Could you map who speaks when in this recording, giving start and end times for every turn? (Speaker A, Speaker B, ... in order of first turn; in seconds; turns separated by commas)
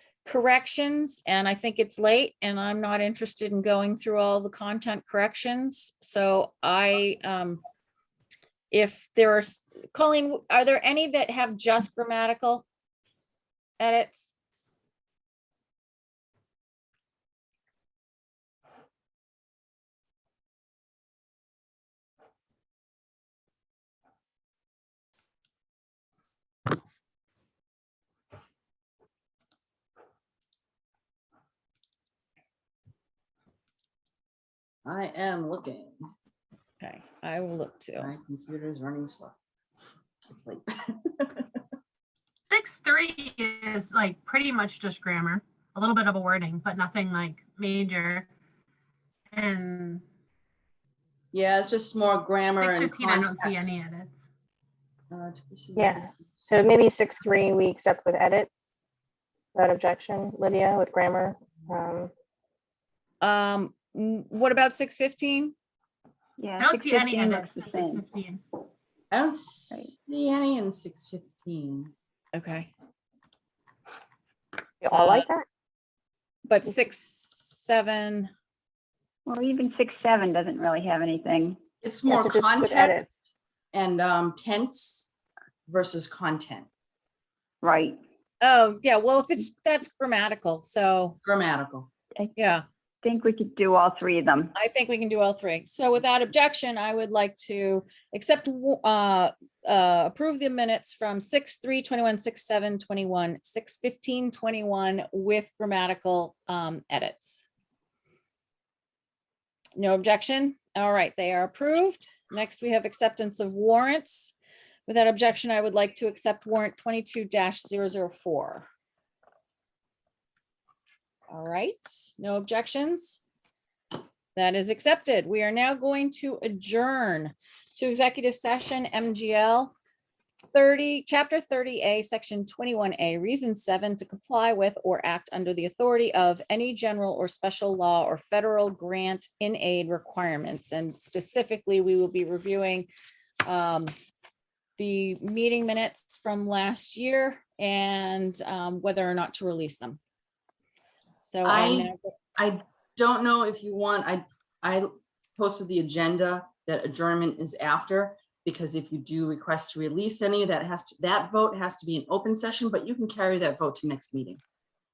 Speaker A: 0.2-7.6, Speaker A: 8.7-12.7, Speaker A: 13.8-14.3, Speaker B: 34.9-36.0, Speaker A: 36.8-38.1, Speaker B: 38.0-39.4, Speaker B: 40.3-41.5, Speaker C: 42.5-48.3, Speaker C: 49.3-50.0, Speaker B: 51.3-53.8, Speaker C: 52.5-54.2, Speaker B: 55.1-56.6, Speaker D: 55.8-58.8, Speaker D: 59.5-62.1, Speaker A: 63.2-65.5, Speaker E: 66.4-68.0, Speaker C: 66.6-68.4, Speaker B: 69.1-71.9, Speaker A: 72.3-72.7, Speaker D: 74.8-75.5, Speaker A: 74.9-75.3, Speaker A: 76.5-78.3, Speaker E: 79.3-81.6, Speaker B: 81.8-83.0, Speaker D: 82.1-83.1, Speaker B: 83.7-85.1, Speaker B: 85.7-86.7, Speaker E: 87.6-88.0, Speaker A: 88.4-91.2, Speaker B: 91.2-91.9, Speaker A: 92.4-92.7, Speaker E: 93.0-94.5, Speaker A: 94.5-107.4, Speaker A: 109.8-114.3, Speaker A: 114.9-118.7, Speaker A: 121.3-123.2, Speaker A: 124.3-129.7, Speaker A: 130.5-142.9, Speaker A: 143.4-143.9, Speaker A: 144.8-150.0, Speaker A: 151.2-152.1, Speaker B: 151.4-164.4